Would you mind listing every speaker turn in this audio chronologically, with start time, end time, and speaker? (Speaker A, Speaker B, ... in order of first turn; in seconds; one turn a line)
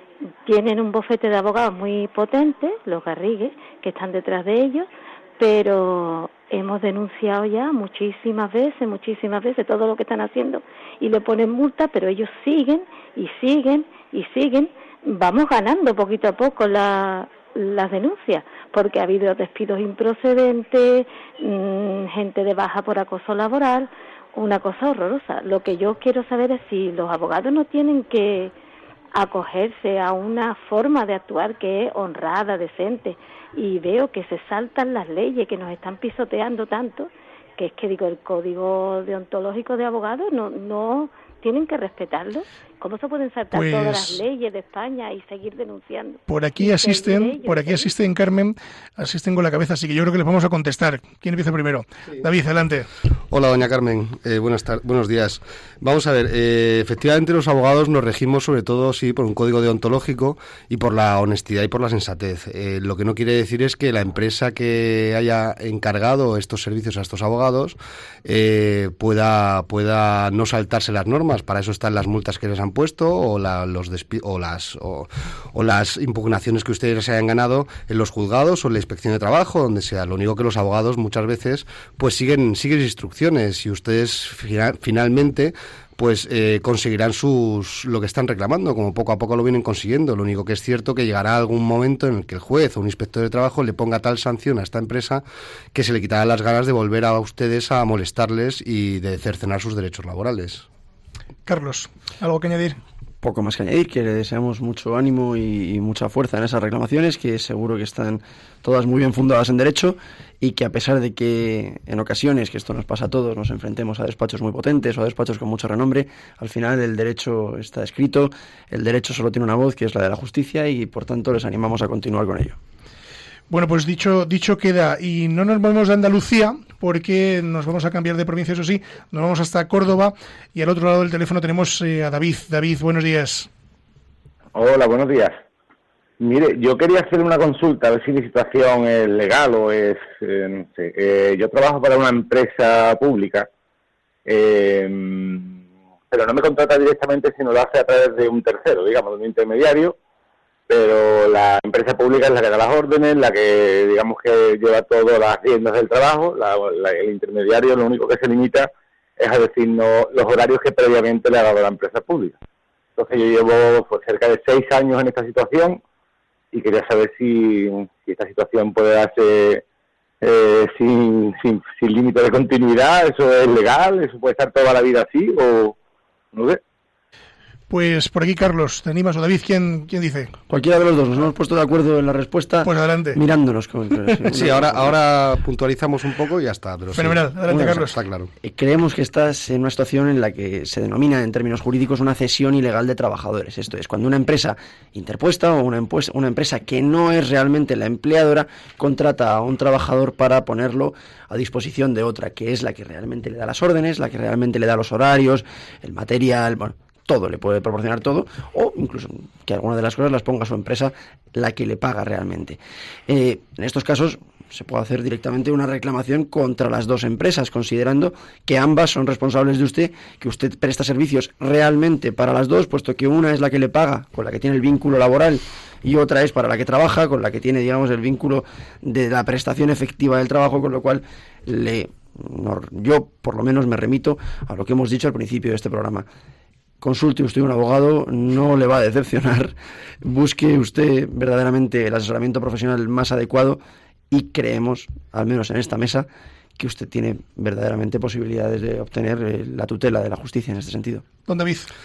Speaker A: 0.5-28.5
Speaker A: 29.1-47.9
Speaker B: 43.5-44.2
Speaker B: 46.3-52.9
Speaker C: 53.3-95.2
Speaker C: 95.7-100.7
Speaker B: 101.5-102.8
Speaker D: 103.2-122.6
Speaker B: 123.5-133.5
Speaker E: 134.5-135.4
Speaker E: 136.2-143.5
Speaker E: 144.3-150.0
Speaker E: 150.7-162.4
Speaker E: 163.0-165.8
Speaker E: 166.5-169.6
Speaker E: 170.2-175.8
Speaker E: 176.3-176.6
Speaker B: 177.7-180.3
Speaker D: 180.5-184.9
Speaker B: 182.7-183.2
Speaker C: 184.2-188.3
Speaker B: 186.9-187.9
Speaker D: 187.5-187.9
Speaker D: 188.4-236.1
Speaker D: 236.8-251.1
Speaker B: 251.3-251.7